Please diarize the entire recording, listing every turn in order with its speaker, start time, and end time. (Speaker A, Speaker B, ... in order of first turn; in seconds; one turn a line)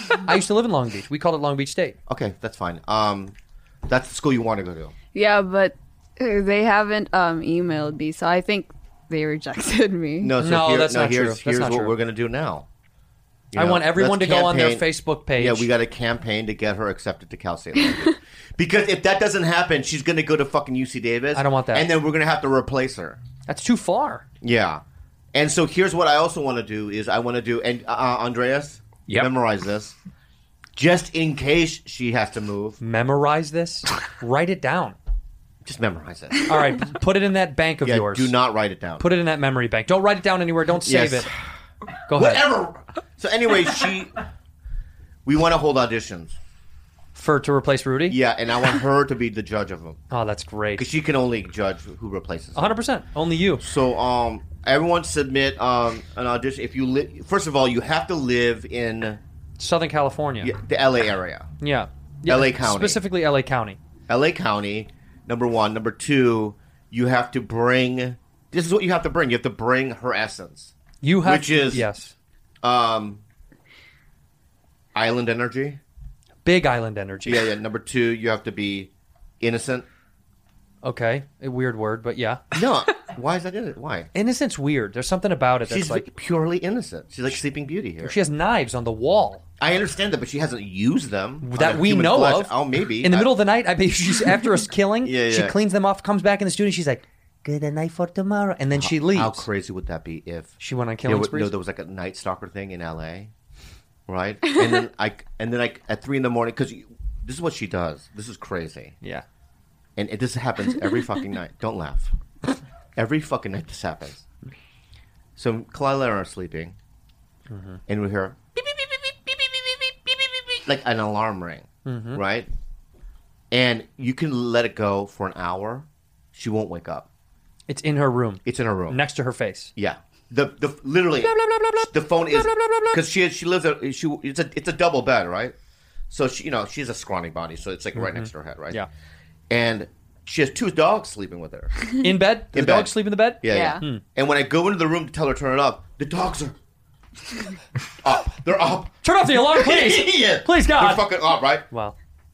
Speaker A: 0.2-2.0
Speaker B: 2.1-5.0
Speaker C: 5.1-10.3
Speaker B: 10.2-12.7
Speaker A: 10.4-12.0
Speaker B: 13.5-23.2
Speaker A: 13.5-15.7
Speaker A: 21.3-21.9
Speaker A: 23.5-24.2
Speaker B: 24.4-24.8
Speaker B: 25.3-30.0
Speaker B: 30.8-32.8
Speaker A: 32.8-35.0
Speaker B: 35.6-36.5
Speaker A: 36.5-38.4
Speaker B: 37.8-39.0
Speaker A: 39.0-41.3
Speaker B: 40.8-41.3
Speaker A: 42.1-42.5
Speaker B: 42.1-44.2
Speaker B: 45.2-46.4
Speaker A: 47.1-48.2
Speaker B: 48.1-50.0
Speaker A: 50.1-50.9
Speaker B: 50.8-52.8
Speaker A: 52.5-53.6
Speaker B: 53.6-59.2
Speaker A: 59.6-60.5
Speaker B: 60.4-61.5
Speaker A: 61.6-63.8
Speaker B: 62.3-63.0
Speaker B: 64.1-71.9
Speaker A: 71.0-72.2
Speaker B: 72.6-73.2
Speaker B: 75.0-75.8
Speaker A: 76.5-77.5
Speaker B: 77.2-79.9
Speaker A: 80.8-82.4
Speaker B: 82.5-84.1
Speaker A: 84.1-86.0
Speaker B: 85.7-88.2
Speaker A: 88.0-89.4
Speaker B: 89.6-93.3
Speaker A: 91.4-99.5
Speaker B: 95.0-95.6
Speaker B: 98.8-103.3
Speaker A: 100.6-101.5
Speaker B: 104.1-109.0
Speaker B: 110.0-112.1
Speaker B: 113.0-114.3
Speaker B: 115.4-116.8
Speaker A: 117.5-117.8
Speaker B: 117.9-122.5
Speaker A: 121.8-122.2
Speaker B: 123.5-127.1
Speaker A: 127.7-129.7
Speaker B: 128.4-129.0
Speaker B: 129.8-135.6
Speaker B: 136.1-138.8
Speaker A: 137.9-138.9
Speaker B: 139.5-141.8
Speaker A: 142.0-144.0
Speaker B: 142.5-146.6
Speaker C: 143.5-143.8
Speaker B: 148.0-151.7
Speaker A: 149.0-151.1
Speaker A: 151.7-152.0